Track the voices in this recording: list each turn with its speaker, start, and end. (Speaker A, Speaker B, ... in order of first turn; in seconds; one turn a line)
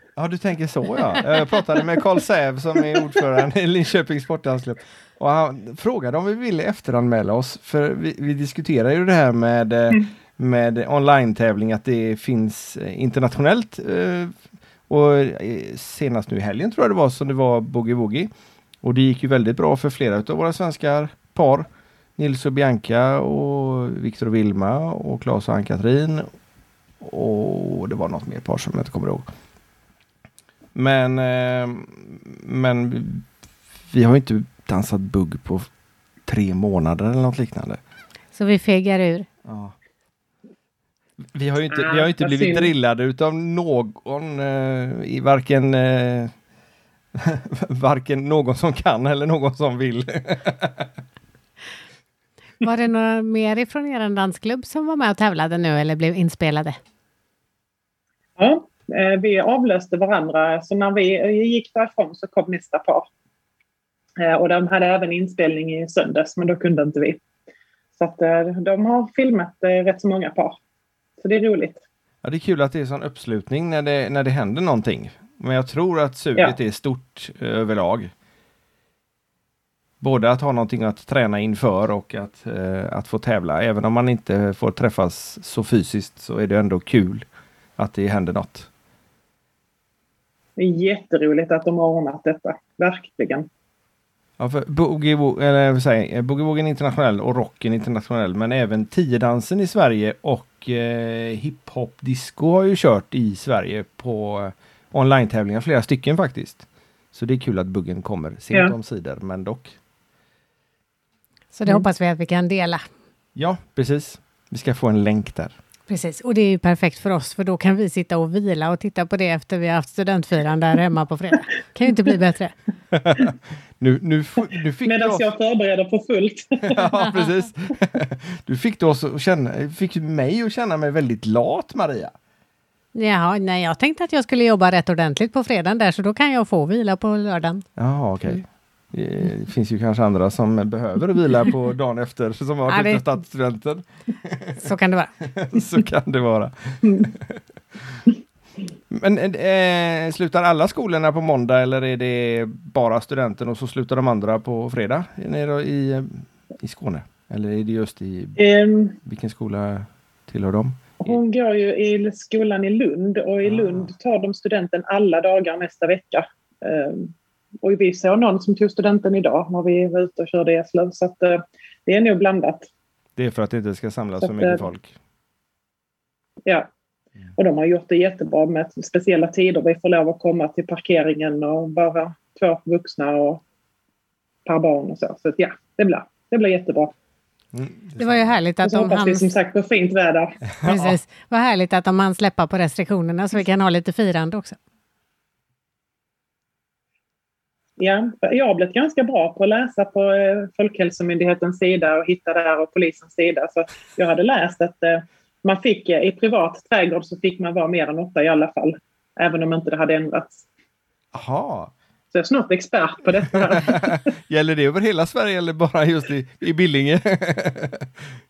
Speaker A: 0.2-14.3
Speaker A: 14.9-18.3
Speaker A: 18.8-21.6
Speaker A: 22.2-26.3
Speaker A: 27.0-29.3
Speaker A: 30.8-33.3
Speaker A: 33.9-35.7
Speaker A: 36.3-37.8
Speaker B: 38.3-39.3
Speaker A: 39.5-39.8
Speaker A: 41.3-46.3
Speaker C: 41.7-42.7
Speaker A: 47.1-50.9
Speaker B: 52.6-56.8
Speaker C: 58.4-63.1
Speaker C: 64.2-67.2
Speaker C: 68.0-70.6
Speaker C: 71.2-71.8
Speaker A: 72.2-78.1
Speaker A: 80.0-87.3
Speaker A: 87.8-88.7
Speaker C: 90.6-93.5
Speaker A: 94.4-109.7
Speaker B: 111.5-112.9
Speaker A: 113.4-115.6
Speaker B: 115.9-122.5
Speaker A: 122.9-125.3
Speaker C: 124.8-126.8
Speaker A: 126.6-132.1
Speaker B: 132.9-137.7
Speaker A: 137.8-144.6
Speaker B: 142.7-143.1
Speaker B: 144.6-145.1
Speaker A: 145.3-147.4
Speaker A: 148.9-158.4
Speaker C: 158.4-159.0
Speaker A: 159.0-161.2
Speaker C: 161.0-172.7
Speaker A: 163.4-163.9
Speaker A: 173.2-174.9
Speaker C: 174.2-174.6
Speaker C: 177.4-183.4
Speaker C: 184.5-186.9
Speaker A: 187.5-188.4
Speaker B: 188.0-189.3
Speaker C: 188.6-190.4
Speaker A: 190.6-191.0
Speaker B: 190.6-194.6
Speaker C: 197.8-210.4
Speaker A: 211.1-211.7
Speaker C: 212.1-214.1
Speaker A: 213.5-217.9